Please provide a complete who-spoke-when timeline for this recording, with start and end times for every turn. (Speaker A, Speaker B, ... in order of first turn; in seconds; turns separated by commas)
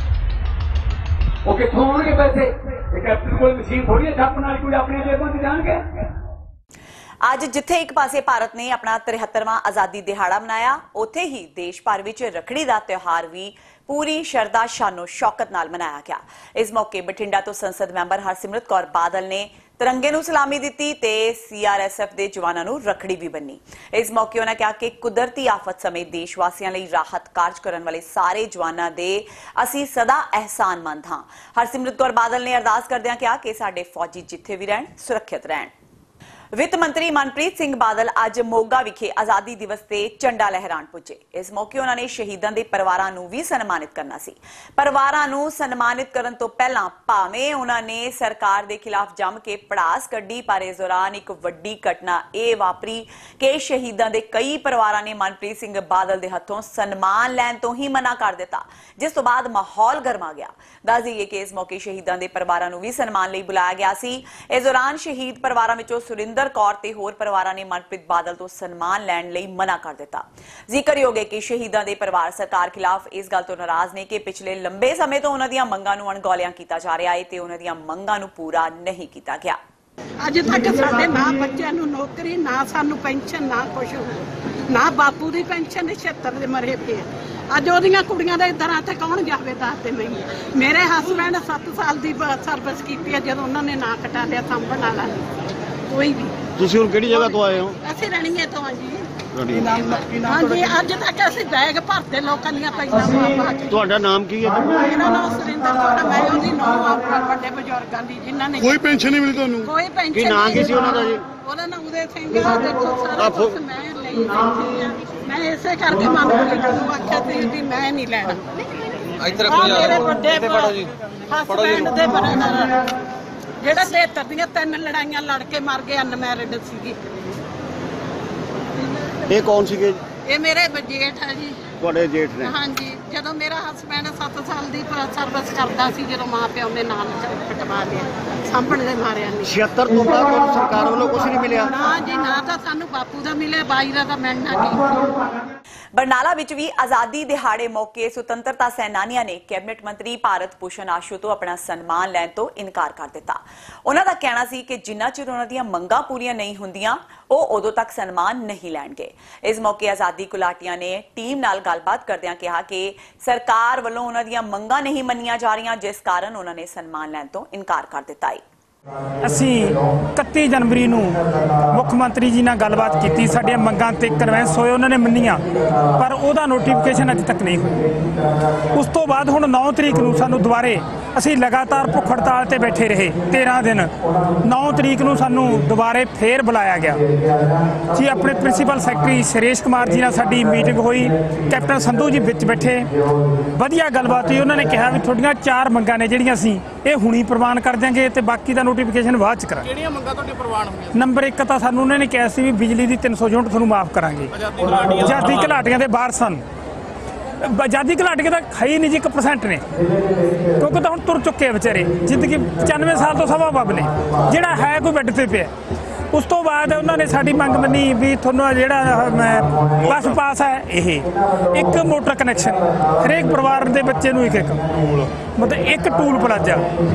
Speaker A: 1.4-6.0, Speaker B: 7.2-35.7, Speaker B: 36.5-79.6, Speaker C: 80.2-95.2, Speaker C: 95.9-96.5, Speaker D: 96.5-97.8, Speaker C: 97.1-99.1, Speaker D: 99.3-100.2, Speaker C: 100.2-103.7, Speaker D: 103.7-104.7, Speaker C: 104.7-109.1, Speaker D: 108.6-111.2, Speaker C: 109.6-118.5, Speaker D: 113.2-113.5, Speaker C: 119.2-122.8, Speaker C: 123.6-127.3, Speaker D: 129.3-130.0, Speaker C: 130.2-131.7, Speaker D: 131.8-132.5, Speaker C: 132.4-139.6, Speaker D: 139.4-141.7, Speaker C: 141.7-145.4, Speaker B: 145.9-168.4, Speaker E: 169.2-175.4, Speaker E: 175.9-178.0, Speaker E: 178.7-187.0, Speaker E: 187.9-192.9, Speaker E: 193.6-199.8, Speaker F: 199.7-200.9, Speaker E: 200.9-206.4, Speaker F: 204.3-205.5, Speaker E: 207.4-209.6, Speaker E: 210.6-215.5, Speaker E: 216.1-226.7